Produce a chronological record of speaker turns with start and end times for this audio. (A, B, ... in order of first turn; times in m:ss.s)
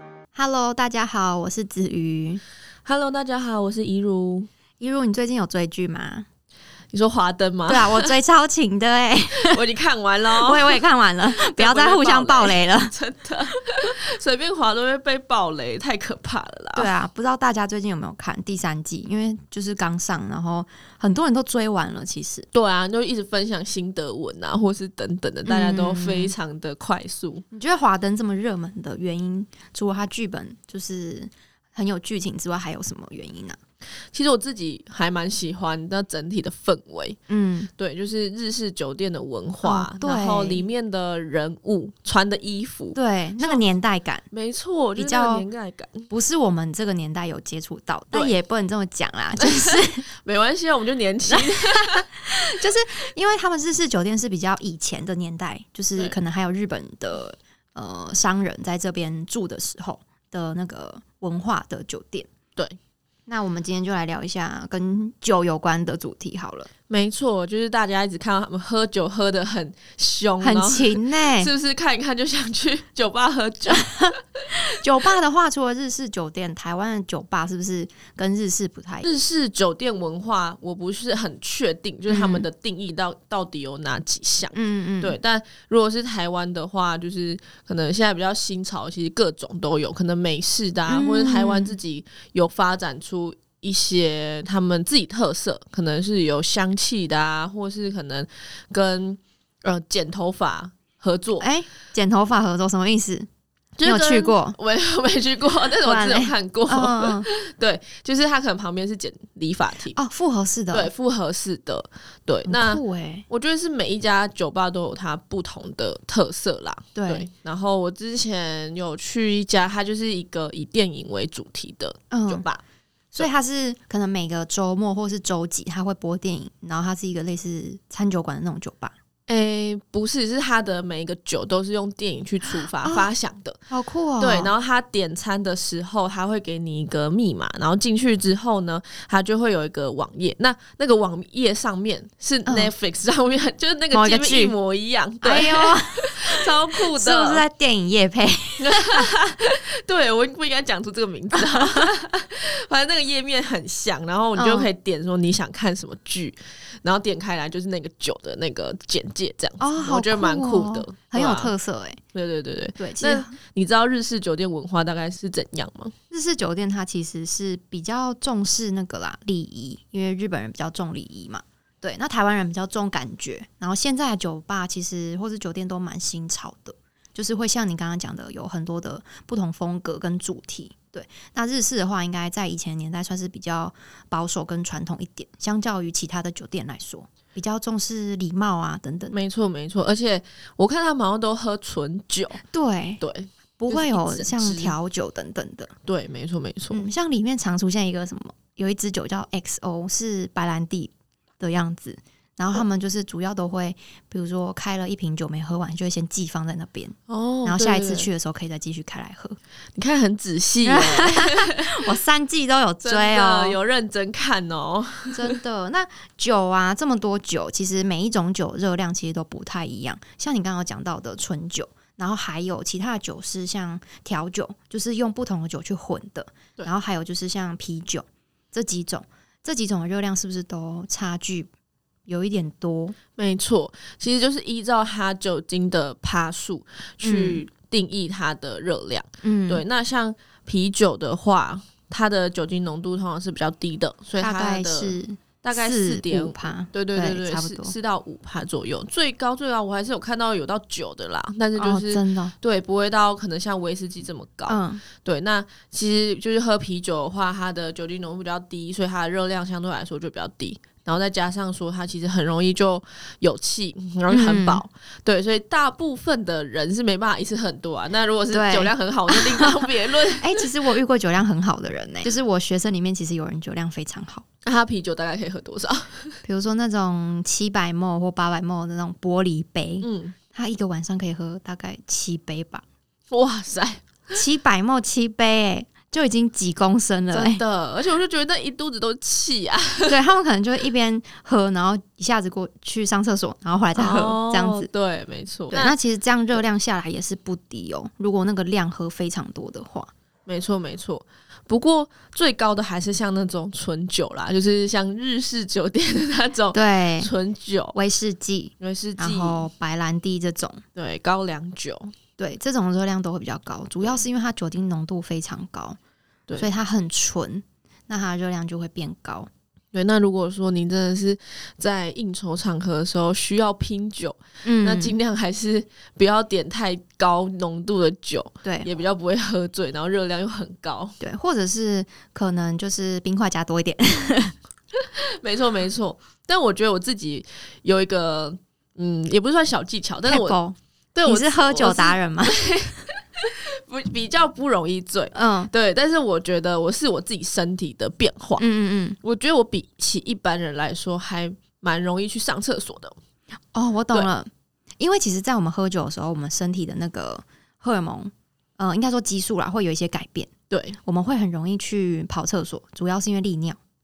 0:00.3-0:02.4 A
0:02.8-0:04.5 B
0:04.8-0:06.3 A
0:06.9-0:08.1 B
0:07.7-0:09.6 A
0:09.3-0:16.9 B
0:10.4-0:13.0 A
0:16.8-0:22.5 A
0:22.5-0:27.4 B
0:25.5-0:26.3 A
0:27.5-0:33.6 A
0:34.1-0:37.2 B
0:37.3-0:37.7 A
0:37.8-0:43.6 B
0:39.6-0:40.6 A
0:42.9-0:44.2 A
0:44.3-0:46.1 B
0:45.0-0:45.5 A
0:46.1-0:50.1 A
0:49.4-0:52.1 B
0:51.3-1:02.3 A
1:03.3-1:06.7 A
1:06.9-1:14.4 B
1:10.4-1:11.5 A
1:13.7-1:19.1 A
1:19.0-1:41.5 B
1:22.1-1:22.5 A
1:24.5-1:25.2 A
1:30.9-1:31.8 A
1:41.4-1:43.3 A
1:43.8-1:50.0 B
1:43.8-1:44.6 A
1:45.8-1:47.3 A
1:50.0-1:50.9 A
1:50.7-2:02.6 B
1:52.5-1:53.3 A
1:57.0-1:57.3 A
2:02.1-2:02.5 A
2:03.1-2:08.9 A
2:09.3-2:13.6 B
2:12.5-2:13.1 A
2:13.7-2:14.5 A
2:14.2-2:27.4 B
2:22.5-2:22.7 A
2:23.9-2:24.6 A
2:25.2-2:29.0 A
2:28.6-2:41.5 B
2:34.4-2:34.7 A
2:39.6-2:42.0 A
2:42.1-2:45.9 B
2:42.8-2:43.4 A
2:46.1-3:09.2 A
3:09.1-3:12.4 B
3:12.4-3:13.0 A
3:13.0-3:14.8 B
3:13.6-3:15.7 A
3:15.9-3:16.9 B
3:16.7-3:29.4 A
3:27.1-3:28.1 B
3:29.8-3:31.9 B
3:30.6-3:33.6 A
3:32.8-3:35.4 B
3:35.1-3:51.5 A
3:52.1-3:53.0 A
3:53.2-4:30.5 B
3:57.0-3:57.4 A
3:59.2-3:59.6 A
4:04.2-4:07.7 A
4:11.6-4:12.3 A
4:14.5-4:14.8 A
4:24.1-4:24.6 A
4:28.3-4:29.7 A
4:30.2-4:34.2 A
4:34.4-4:36.2 B
4:36.2-4:42.6 A
4:39.8-4:40.2 B
4:43.1-4:44.2 B
4:44.1-4:47.4 A
4:47.1-4:50.0 B
4:49.9-4:54.7 A
4:53.8-4:55.7 B
4:55.5-4:59.9 A
5:00.3-5:07.8 B
5:06.5-5:07.1 A
5:07.7-5:10.6 A
5:08.6-5:09.5 B
5:10.8-5:11.9 B
5:12.2-5:15.8 A
5:16.3-5:16.5 B
5:16.4-5:19.3 A
5:19.7-5:30.9 B
5:24.4-5:25.0 A
5:31.0-5:34.4 A
5:34.8-5:40.4 B
5:40.1-5:42.5 A
5:41.0-5:48.4 B
5:45.1-5:45.5 A
5:48.4-5:49.0 A
5:49.0-5:53.0 B
5:53.5-5:54.3 A
5:54.8-6:00.3 A
6:00.5-6:00.8 B
6:00.8-6:03.6 A